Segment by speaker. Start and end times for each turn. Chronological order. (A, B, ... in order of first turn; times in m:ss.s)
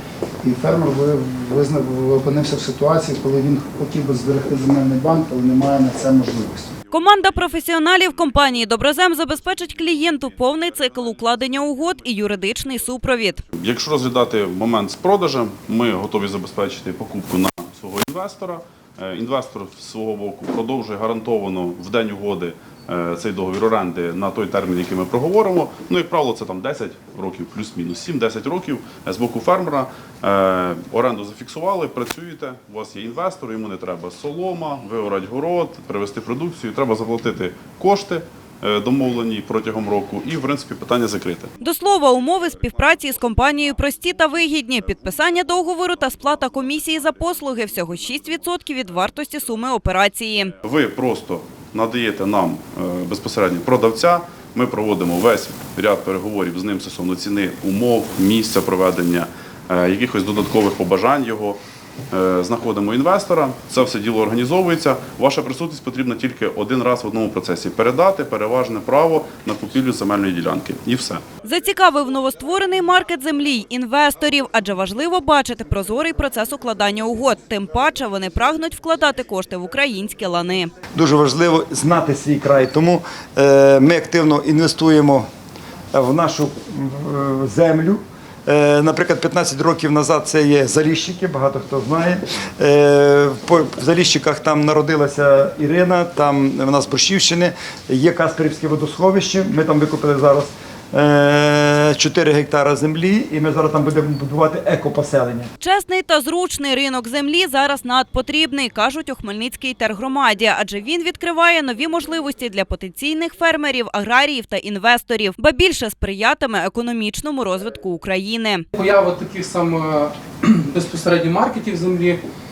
0:00.4-0:06.8 A
0:06.9-0:13.4 B
0:13.5-0:41.5 C
0:41.6-0:50.5 B
0:50.6-1:01.6 C
1:02.1-1:11.2 C
1:11.4-1:20.7 B
1:20.9-1:25.3 D
1:25.9-1:45.5 D
1:45.6-1:58.6 B
1:58.7-2:02.2 E